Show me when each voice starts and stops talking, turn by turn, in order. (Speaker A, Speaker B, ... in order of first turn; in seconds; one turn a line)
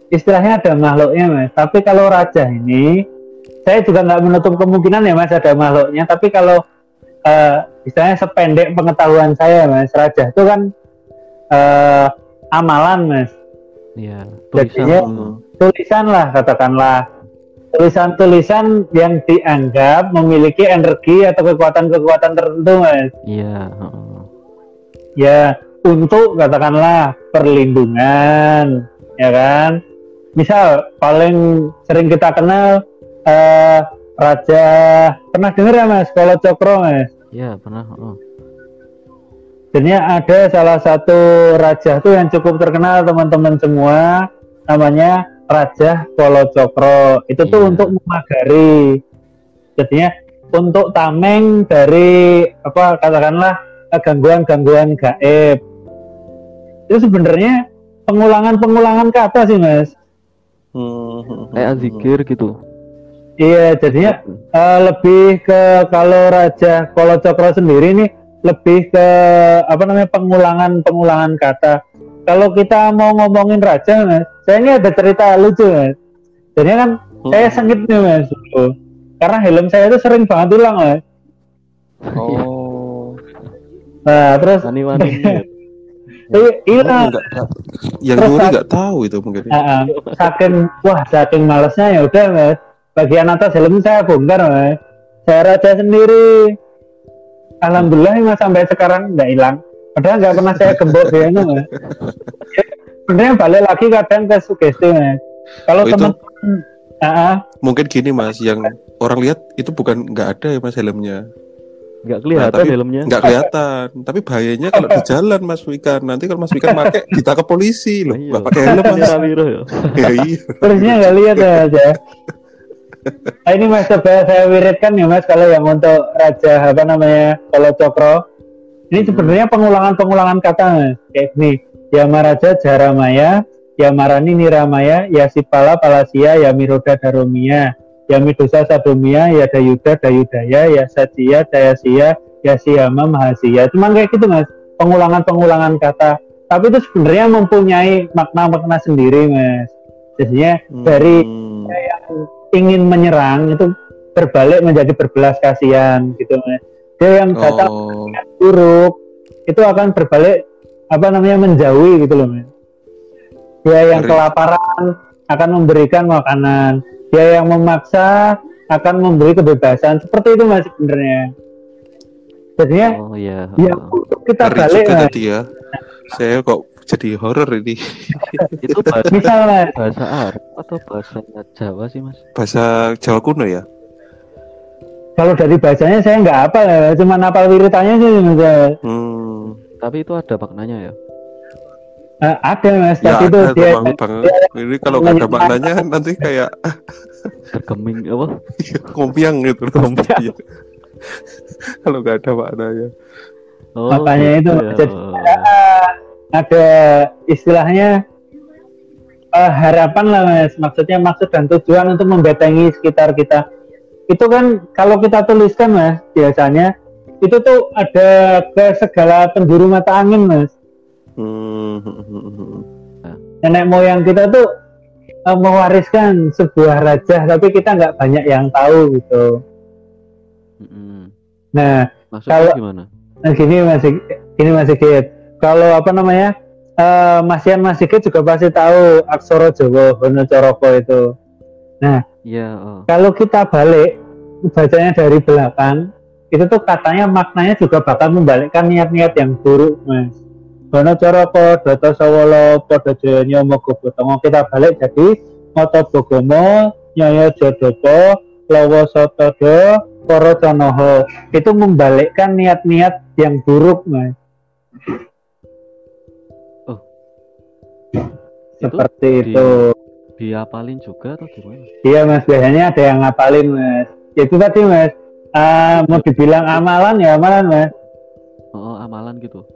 Speaker A: 0.1-2.9
Speaker A: 3.7-6.6
Speaker A: 7.3-10.6
Speaker A: 11.6-13.3
Speaker B: 14.0-15.3
Speaker A: 14.6-15.0
Speaker C: 14.9-15.4
Speaker A: 15.6-17.0
Speaker A: 17.7-23.1
Speaker B: 23.3-24.3
Speaker A: 25.2-29.8
Speaker A: 30.4-32.6
Speaker A: 33.3-37.1
Speaker B: 37.4-38.2
Speaker A: 39.8-44.2
Speaker A: 44.7-48.8
Speaker B: 47.5-48.0
Speaker A: 49.8-55.6
Speaker A: 56.9-59.9
Speaker C: 60.8-62.1
Speaker B: 61.6-62.5
Speaker A: 63.4-71.8
Speaker B: 64.0-64.3
Speaker A: 72.3-75.9
Speaker A: 76.6-78.7
Speaker C: 77.2-77.6
Speaker A: 79.2-81.0
Speaker B: 82.1-82.5
Speaker C: 82.2-83.2
Speaker A: 84.1-85.3
Speaker B: 84.6-85.5
Speaker C: 86.3-89.6
Speaker A: 86.3-87.2
Speaker A: 88.2-88.6
Speaker A: 89.5-96.5
Speaker B: 89.9-90.5
Speaker A: 97.6-101.7
Speaker C: 100.5-102.3
Speaker A: 102.4-107.4
Speaker C: 105.8-106.2
Speaker C: 107.6-111.2
Speaker B: 112.1-113.2
Speaker C: 112.4-119.2
Speaker A: 114.8-115.0
Speaker A: 116.6-116.9
Speaker B: 118.1-120.3
Speaker A: 118.6-119.1
Speaker C: 120.0-121.6
Speaker A: 120.6-122.0
Speaker A: 123.5-128.2
Speaker A: 128.9-158.9
Speaker C: 129.0-129.4
Speaker C: 150.7-151.8
Speaker C: 157.4-158.2
Speaker A: 159.5-160.4
Speaker A: 160.9-162.5
Speaker A: 163.7-171.3
Speaker C: 163.9-164.3
Speaker A: 172.6-172.9
Speaker B: 172.8-174.0
Speaker A: 173.6-175.1
Speaker C: 174.4-175.5
Speaker C: 176.1-179.1
Speaker A: 178.2-178.5
Speaker B: 178.6-182.2
Speaker A: 179.1-179.7
Speaker C: 182.4-183.6
Speaker A: 185.2-188.7
Speaker C: 188.8-189.6
Speaker B: 189.8-190.9
Speaker A: 192.3-195.8
Speaker C: 193.0-196.6
Speaker B: 197.5-198.3
Speaker C: 198.6-200.4
Speaker B: 199.9-200.2
Speaker C: 201.8-202.9
Speaker B: 203.8-205.5
Speaker A: 203.9-207.9
Speaker A: 209.4-213.4
Speaker A: 214.1-216.7
Speaker A: 217.2-220.5
Speaker C: 221.2-222.7
Speaker A: 223.4-224.4
Speaker A: 225.3-229.3
Speaker B: 230.6-231.1
Speaker A: 231.6-232.6
Speaker B: 232.1-232.9
Speaker A: 233.3-241.0
Speaker B: 242.3-242.9
Speaker A: 242.9-243.9
Speaker A: 244.5-245.8
Speaker A: 246.3-250.2
Speaker A: 250.7-264.1
Speaker B: 268.6-269.6
Speaker A: 268.6-269.6
Speaker B: 270.2-271.7
Speaker A: 271.9-277.7
Speaker B: 275.7-276.6
Speaker B: 278.6-279.4